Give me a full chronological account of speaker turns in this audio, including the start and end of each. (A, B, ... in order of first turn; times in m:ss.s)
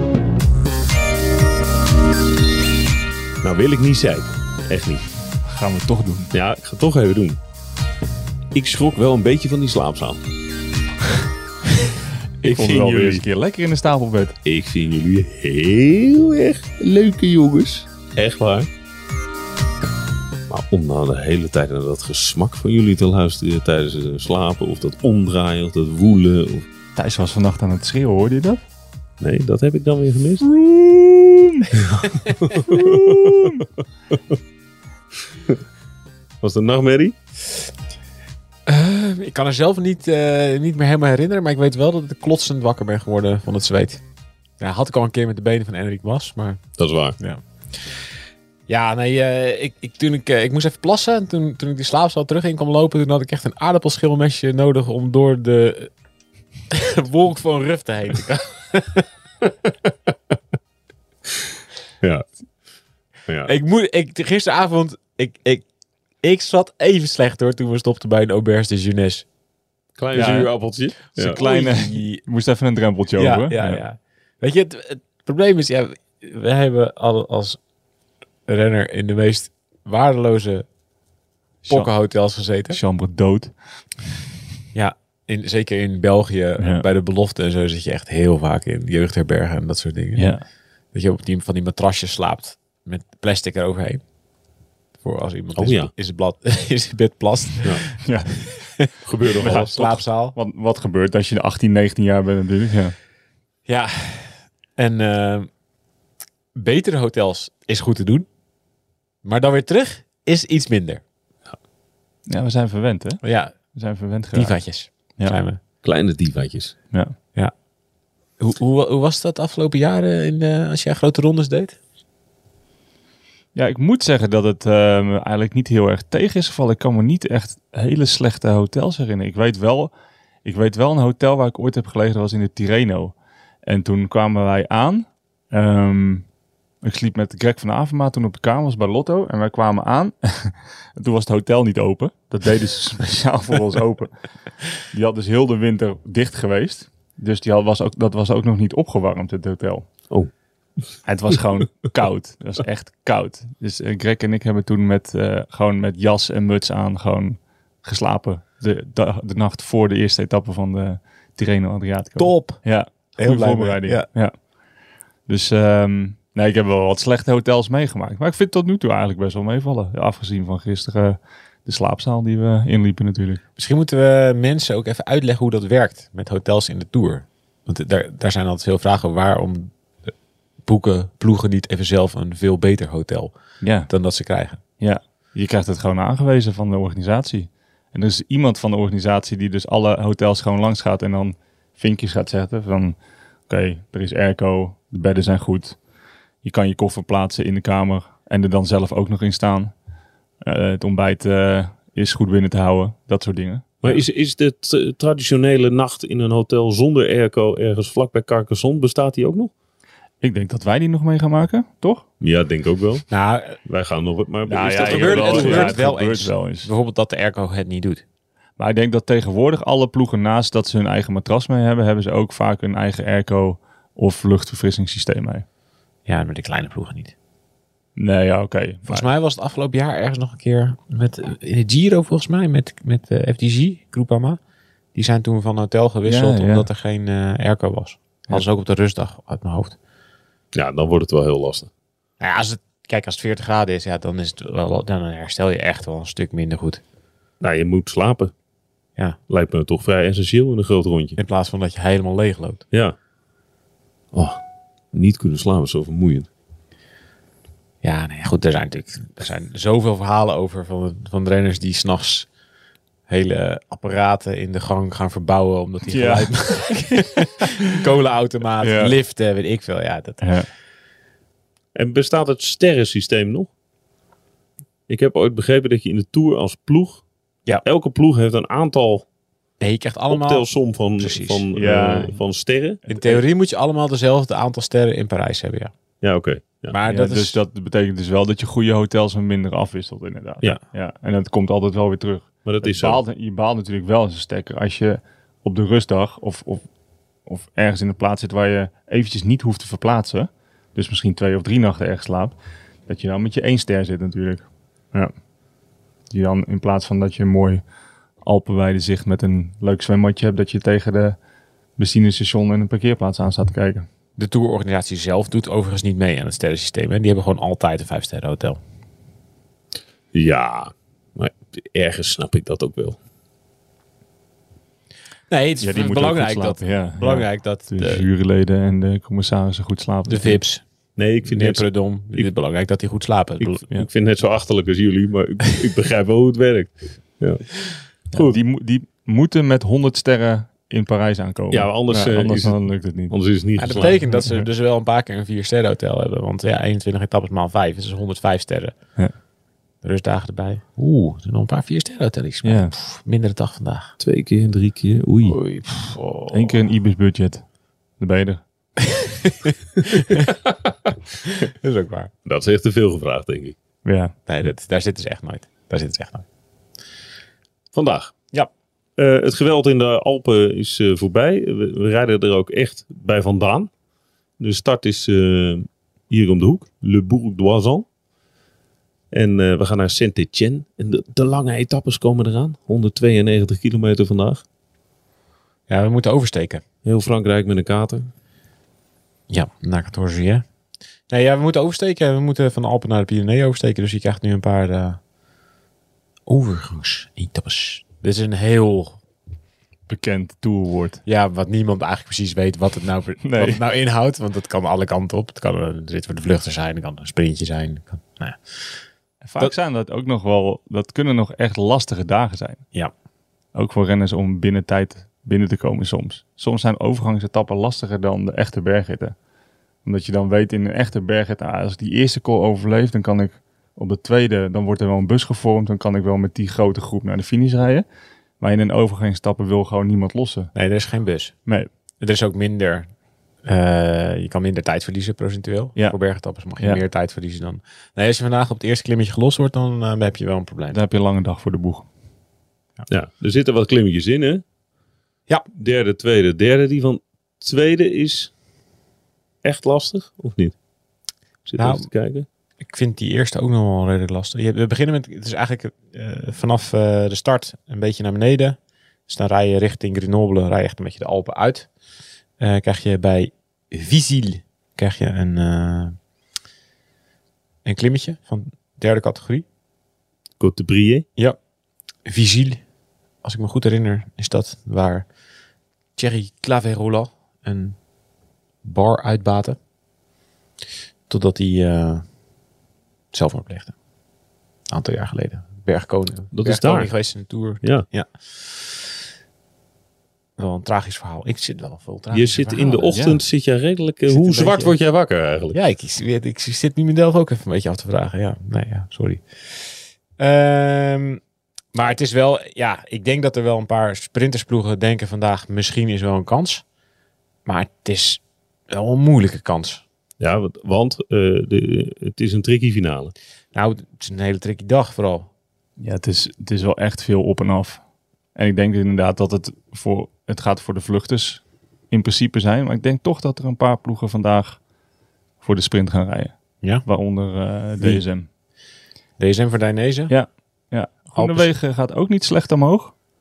0:03.4-0:05.0 A
0:05.4-0:06.3 B
0:06.3-0:07.4 A
0:08.5-0:10.2 A
0:12.4-0:13.2 C
0:12.4-0:14.4 B
0:14.4-0:18.7 A
0:20.5-0:26.7 A
0:27.0-0:28.6 B
0:29.2-0:30.4 A
0:30.4-0:31.7 B
0:31.8-0:33.5 A
0:32.7-0:33.6 B
0:36.4-0:37.2 A
0:38.7-0:44.0 C
0:44.6-0:46.6 C
0:46.8-0:47.2 A
0:47.2-0:48.0 C
0:48.7-0:55.9 C
0:56.7-0:59.1 C
1:03.4-1:05.6 C
1:06.2-1:09.2 C
1:10.0-1:11.4 A
1:10.1-1:10.5 B
1:11.1-1:12.2 C
1:11.2-1:13.8 B
1:13.2-1:17.6 C
1:18.5-1:20.6 C
1:21.6-1:21.9 B
1:21.7-1:22.8 C
1:22.7-1:23.5 B
1:24.7-1:30.3 C
1:26.6-1:26.8 B
1:30.2-1:30.4 B
1:30.9-1:34.0 C
1:35.0-1:37.9 C
1:35.6-1:35.9 A
1:38.0-1:38.7 B
1:39.0-1:40.0 A
1:39.4-1:39.7 B
1:39.7-1:40.3 C
1:40.3-1:42.9 B
1:43.6-1:45.5 C
1:46.6-1:48.2 C
1:49.2-1:51.0 C
1:52.3-1:54.6 B
1:53.2-1:53.5 C
1:54.3-1:55.6 C
1:55.8-1:56.7 A
1:58.4-2:01.8 C
2:03.5-2:09.9 B
2:10.4-2:16.2 B
2:16.8-2:29.9 B
2:31.0-2:44.5 B
2:42.2-2:44.1 C
2:45.2-2:53.4 B
2:53.6-2:59.7 C
3:00.6-3:03.3 C
3:03.6-3:03.9 B
3:03.9-3:04.6 C
3:04.8-3:15.8 B
3:16.4-3:19.7 B
3:20.4-3:24.0 B
3:23.8-3:29.5 A
3:30.2-3:32.1 B
3:32.2-3:33.1 A
3:33.1-3:33.6 C
3:33.6-3:35.6 A
3:34.4-3:36.7 B
3:34.8-3:38.0 C
3:38.6-3:45.4 B
3:46.0-3:47.1 C
3:48.0-3:49.0 B
3:48.8-3:54.4 C
3:54.9-3:59.8 C
3:56.0-3:56.7 B
4:00.5-4:01.7 A
4:02.2-4:06.8 C
4:07.4-4:08.3 A
4:09.3-4:11.2 A
4:11.2-4:12.6 C
4:14.1-4:14.4 A
4:14.9-4:16.3 A
4:17.8-4:22.3 C
4:23.1-4:30.2 C
4:25.9-4:26.8 B
4:28.6-4:29.0 B
4:30.2-4:30.5 B
4:31.7-4:33.5 A
4:34.9-4:37.0 A
4:37.6-4:39.0 A
4:39.6-4:41.4 C
4:40.1-4:42.8 A
4:41.5-4:42.1 B
4:42.9-4:43.1 B
4:42.9-4:45.7 C
4:46.0-4:46.8 A
4:46.7-4:47.4 C
4:46.8-4:56.6 B
4:52.4-4:53.0 A
4:57.2-5:05.1 B
5:06.1-5:07.6 B
5:08.2-5:11.2 B
5:11.8-5:13.9 B
5:14.2-5:18.6 C
5:20.1-5:23.0 A
5:25.3-5:28.0 C
5:25.6-5:30.4 B
5:30.1-5:30.6 C
5:31.0-5:32.3 A
5:31.2-5:33.6 C
5:33.4-5:38.4 A
5:38.1-5:43.1 B
5:41.5-5:42.6 A
5:43.1-5:44.0 A
5:43.6-5:48.7 C
5:44.1-5:44.4 B
5:49.8-5:53.9 C
5:52.4-5:52.8 B
5:54.0-5:55.4 A
5:55.2-5:56.7 C
5:56.3-5:57.4 B
5:58.0-5:58.4 B
5:58.8-6:00.3 C
6:01.2-6:02.1 C
6:02.2-6:03.6 A
6:03.8-6:04.1 B
6:04.3-6:06.2 C
6:07.7-6:08.1 A
6:09.0-6:13.7 A
6:14.4-6:17.8 A
6:19.1-6:24.4 A
6:25.7-6:26.6 C
6:26.8-6:28.1 A
6:29.3-6:30.4 C
6:31.1-6:35.0 C
6:36.3-6:39.0 C
6:39.9-6:41.0 B
6:41.0-6:48.4 C
6:43.2-6:43.6 B
6:49.2-6:52.6 B
6:53.5-6:59.1 B
6:59.8-7:07.8 B
7:08.4-7:10.5 B
7:10.5-7:11.3 C
7:11.4-7:11.7 B
7:12.0-7:12.9 C
7:13.4-7:20.8 C
7:20.7-7:21.9 B
7:22.9-7:24.4 A
7:25.5-7:28.3 A
7:29.4-7:30.5 A
7:31.4-7:32.3 A
7:31.6-7:31.9 C
7:32.6-7:41.7 C
7:42.4-7:46.0 C
7:47.6-7:49.4 C
7:50.4-7:51.0 A
7:52.0-7:52.6 C
7:53.2-7:55.0 C
7:56.0-7:57.8 C
7:58.6-7:59.6 C
8:01.1-8:02.0 C
8:03.1-8:03.7 C
8:04.7-8:08.5 C
8:06.3-8:07.0 A
8:10.4-8:13.0 C
8:12.1-8:15.6 A
8:12.9-8:13.2 B
8:14.1-8:14.7 C
8:15.5-8:19.6 C
8:20.2-8:21.2 C
8:21.7-8:26.6 C
8:27.4-8:29.8 C
8:30.2-8:33.1 A
8:33.5-8:35.3 C
8:35.8-8:37.8 B
8:38.3-8:44.6 B
8:45.4-8:48.3 B
8:49.2-8:50.1 C
8:50.1-8:52.9 B
8:51.2-8:51.5 C